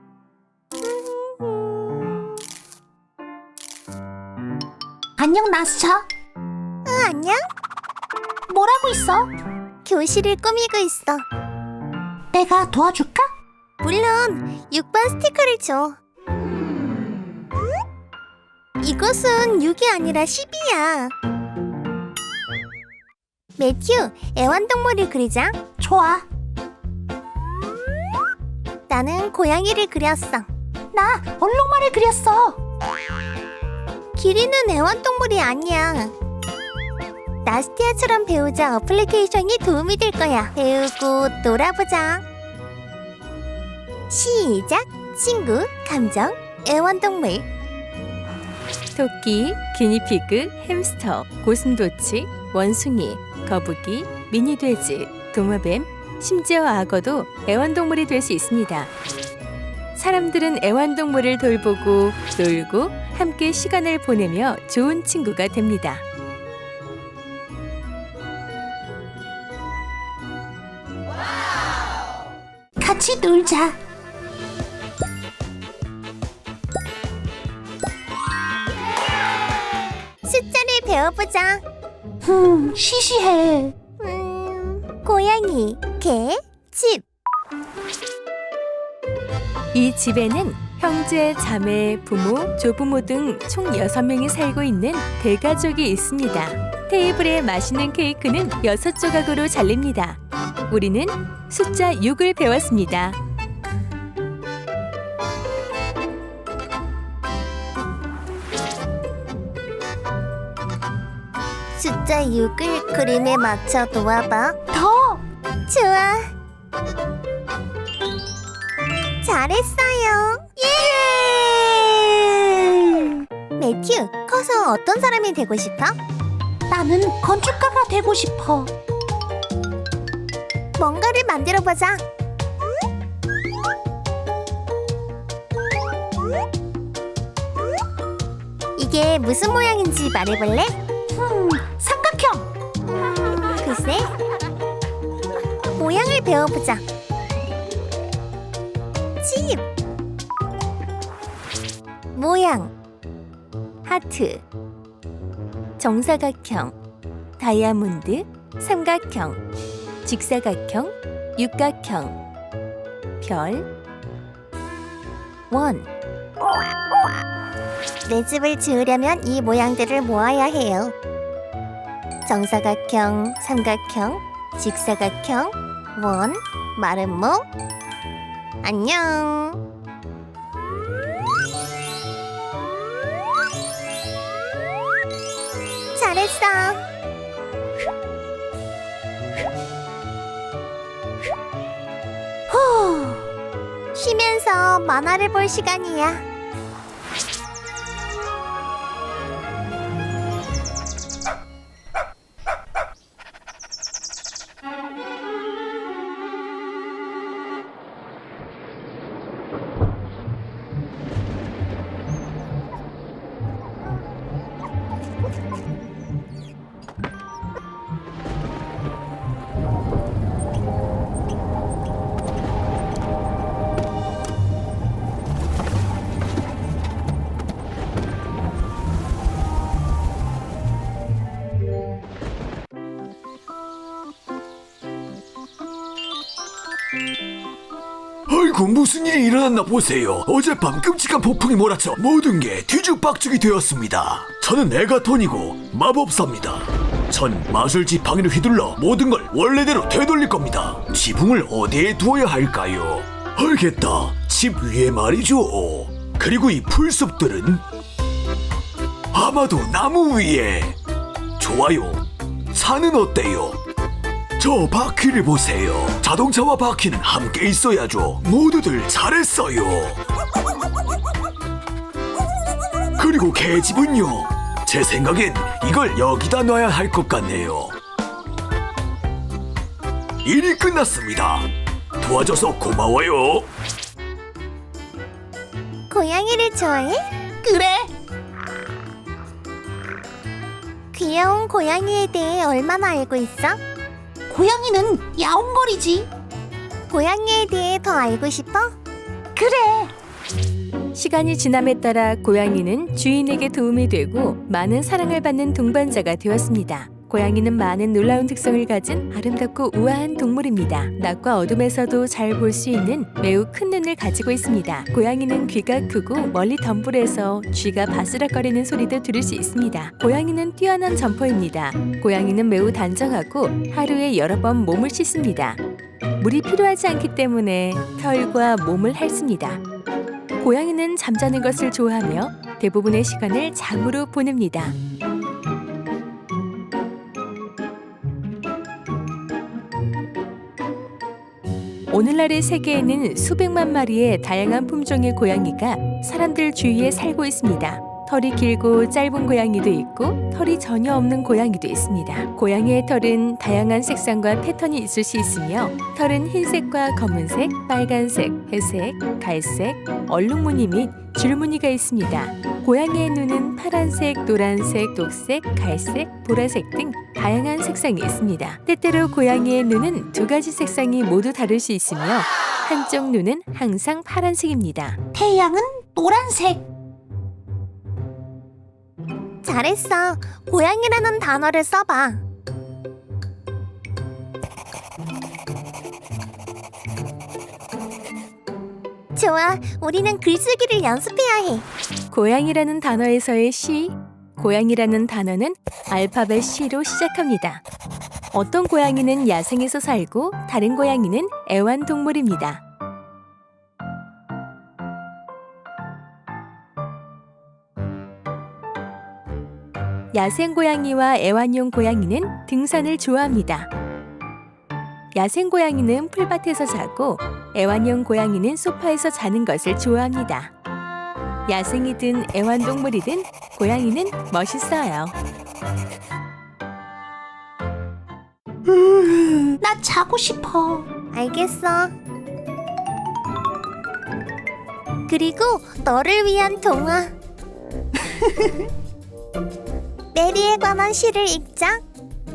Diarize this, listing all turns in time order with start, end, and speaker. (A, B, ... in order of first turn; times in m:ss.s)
0:00.8-0:02.2 A
0:05.2-0:06.1 B
0:06.8-0:07.4 A
0:08.5-0:09.3 B
0:09.8-0:11.2 A
0:12.3-0:13.3 B
0:13.8-0:16.0 A
0:18.8-0:21.1 A
0:23.6-0:25.6 A
0:25.8-0:26.2 B
0:28.9-0:30.5 A
0:30.9-0:32.6 B
0:34.2-0:36.1 A
0:37.4-0:42.2 A
0:44.1-0:47.5 A
0:48.9-0:58.9 C
0:59.9-1:06.0 C
1:12.8-1:13.8 B
1:20.2-1:21.6 A
1:22.2-1:23.7 B
1:24.0-1:27.0 A
1:29.7-1:43.2 C
1:51.8-1:54.6 A
1:54.7-1:55.2 B
1:55.7-1:56.3 A
1:59.2-2:02.6 A
2:02.6-2:03.1 B
2:03.6-2:06.0 A
2:06.7-2:08.7 B
2:10.8-2:12.0 A
2:18.8-2:20.7 A
2:21.1-2:22.5 B
2:23.4-2:24.1 A
2:25.7-2:26.8 A
2:29.2-2:29.6 A
2:32.1-2:32.7 A
2:33.8-2:34.4 A
2:35.8-2:36.7 C
2:37.4-2:39.4 C
2:40.0-2:42.1 C
2:43.2-2:43.6 C
2:45.5-2:45.9 A
2:48.0-2:50.9 A
2:52.2-2:57.4 A
2:58.6-2:59.6 A
3:06.0-3:06.8 A
3:12.5-3:13.2 B
3:13.9-3:16.2 A
3:58.3-4:17.6 D
4:19.1-4:20.8 D
4:21.4-4:23.6 D
4:24.4-4:30.0 D
4:33.0-4:37.7 D
4:40.2-4:41.5 D
4:42.0-4:43.5 D
4:45.9-4:47.0 A
4:47.4-4:47.9 B
4:50.9-4:53.6 A
4:54.3-4:56.1 B
4:56.9-4:58.7 A
4:59.4-4:59.9 B
5:00.9-5:25.6 C
5:26.2-5:29.6 C
5:30.4-5:34.7 C
5:41.9-6:15.0 C
6:15.1-6:16.6 B
6:19.4-6:22.2 A
6:29.2-6:31.6 A
6:32.1-6:37.6 C
6:38.3-6:42.6 C
6:50.1-6:53.7 C
6:55.1-7:00.5 C
7:01.5-7:05.1 C
7:08.7-7:10.9 B
7:11.1-7:11.9 A
7:15.1-7:17.1 A
7:18.0-7:18.7 B
7:20.1-7:21.8 A